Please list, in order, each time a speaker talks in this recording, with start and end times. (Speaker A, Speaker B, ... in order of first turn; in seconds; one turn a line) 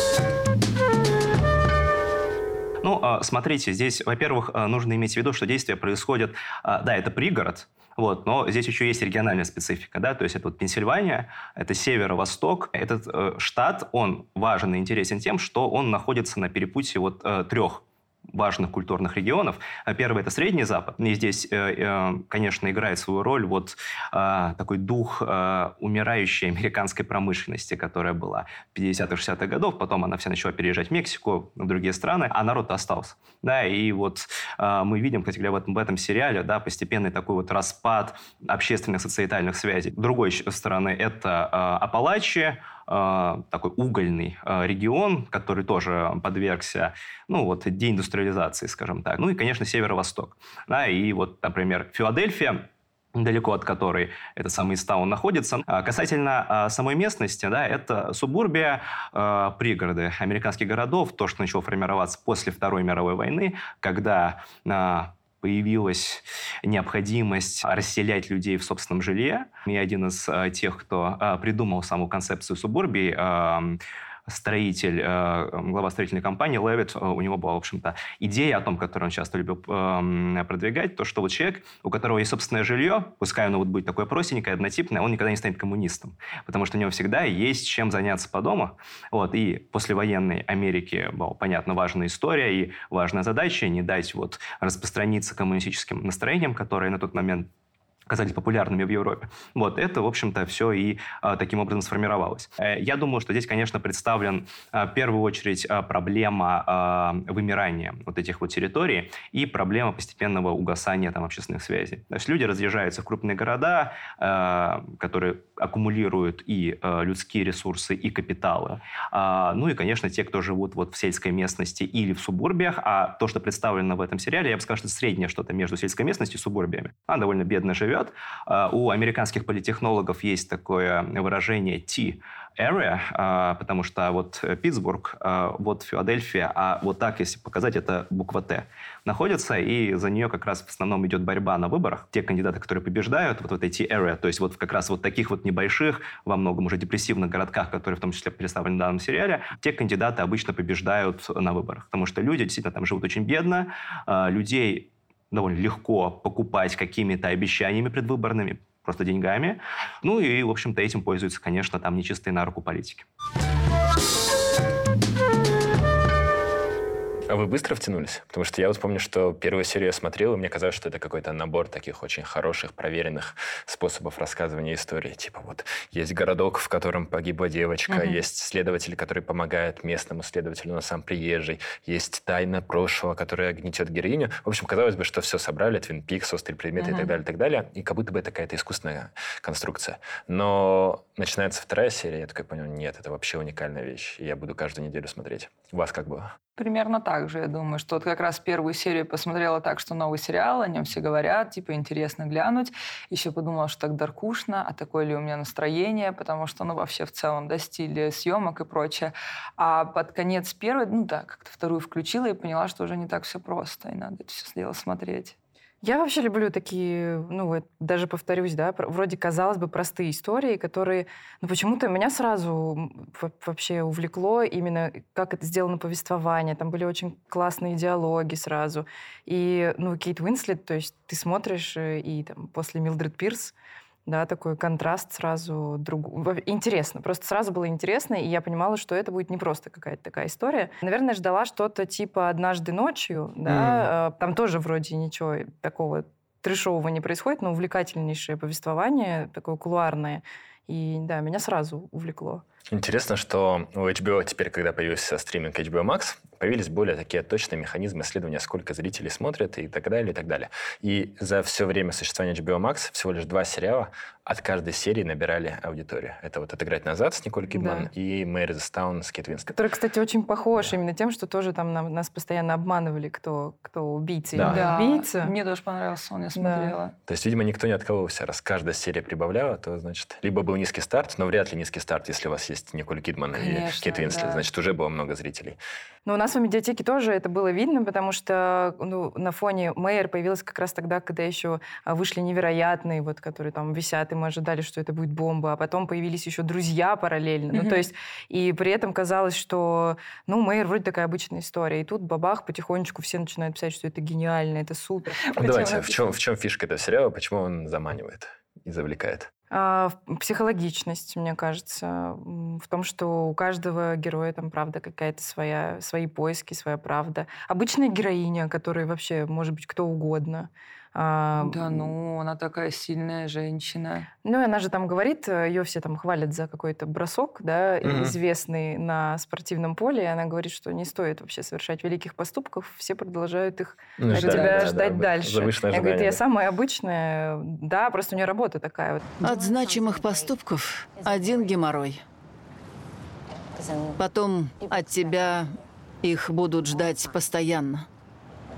Speaker A: 2.8-97.5
Speaker A: 98.1-163.1
Speaker B: 167.3-196.3
Speaker C: 177.9-178.2
Speaker C: 186.8-187.1
Speaker C: 196.6-215.3
Speaker D: 215.8-233.5
Speaker D: 234.1-252.4
Speaker B: 243.4-243.9
Speaker B: 252.7-269.6
Speaker D: 267.5-267.9
Speaker D: 269.5-275.3
Speaker B: 274.3-274.7
Speaker C: 274.4-276.9
Speaker D: 276.3-276.8
Speaker B: 277.1-285.6
Speaker C: 283.3-284.4
Speaker D: 286.1-305.2
Speaker C: 297.5-297.9
Speaker C: 305.3-306.0
Speaker B: 305.4-309.3
Speaker D: 309.5-321.9
Speaker C: 321.4-324.1
Speaker D: 324.2-339.1
Speaker B: 327.8-328.1
Speaker B: 334.0-336.2
Speaker C: 334.2-334.5
Speaker E: 339.2-342.0
Speaker E: 343.9-347.9